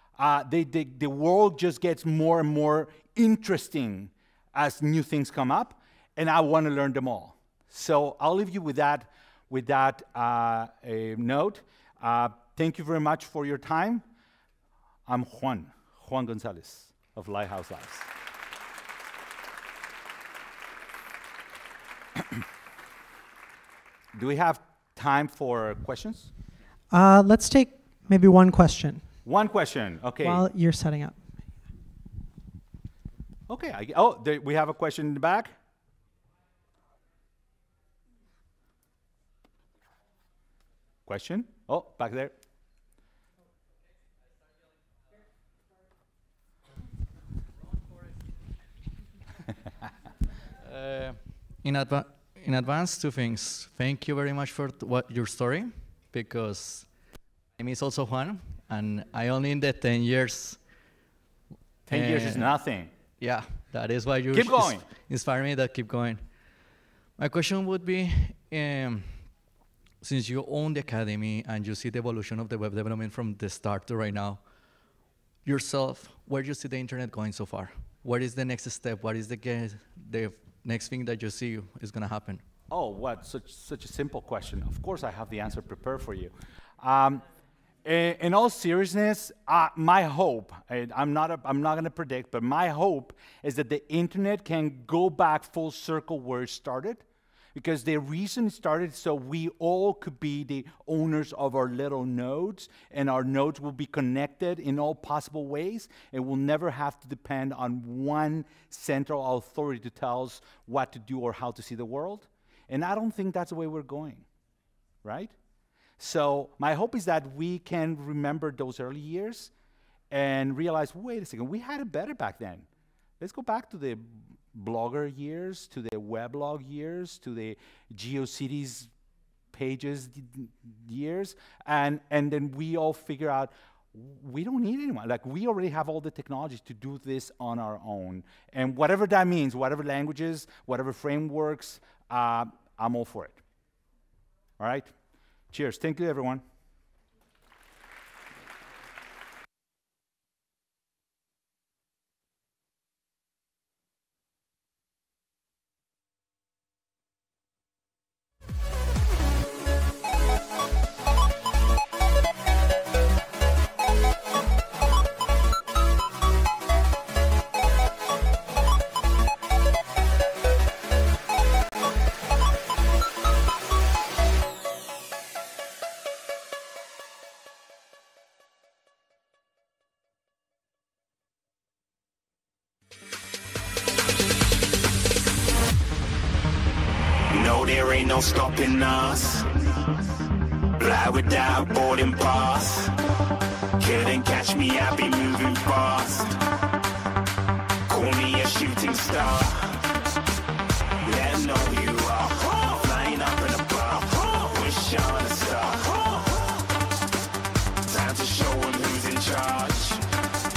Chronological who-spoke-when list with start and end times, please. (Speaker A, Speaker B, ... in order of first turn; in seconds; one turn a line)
Speaker A: 0.2-14.0
Speaker A: 15.1-18.1
Speaker A: 24.1-26.3
Speaker B: 26.9-29.1
Speaker A: 29.2-30.5
Speaker B: 30.2-31.3
Speaker A: 33.5-35.5
Speaker A: 41.1-42.3
Speaker C: 50.6-56.9
Speaker C: 57.6-60.6
Speaker C: 61.9-62.6
Speaker A: 61.9-62.9
Speaker C: 63.2-66.6
Speaker A: 64.3-64.8
Speaker C: 67.2-69.3
Speaker C: 70.0-74.4
Speaker C: 75.4-82.4
Speaker A: 82.7-87.2
Speaker A: 87.8-97.0
Speaker A: 97.5-114.3
Speaker A: 115.0-115.3
Speaker A: 116.0-119.5
Speaker A: 120.1-122.7
Speaker A: 123.2-128.9
Speaker A: 129.5-143.4
Speaker A: 144.6-144.9
Speaker A: 145.5-146.4
Speaker D: 187.3-189.5
Speaker D: 190.8-192.9
Speaker D: 193.8-196.4
Speaker D: 197.9-199.8
Speaker D: 201.0-206.6
Speaker D: 207.9-210.0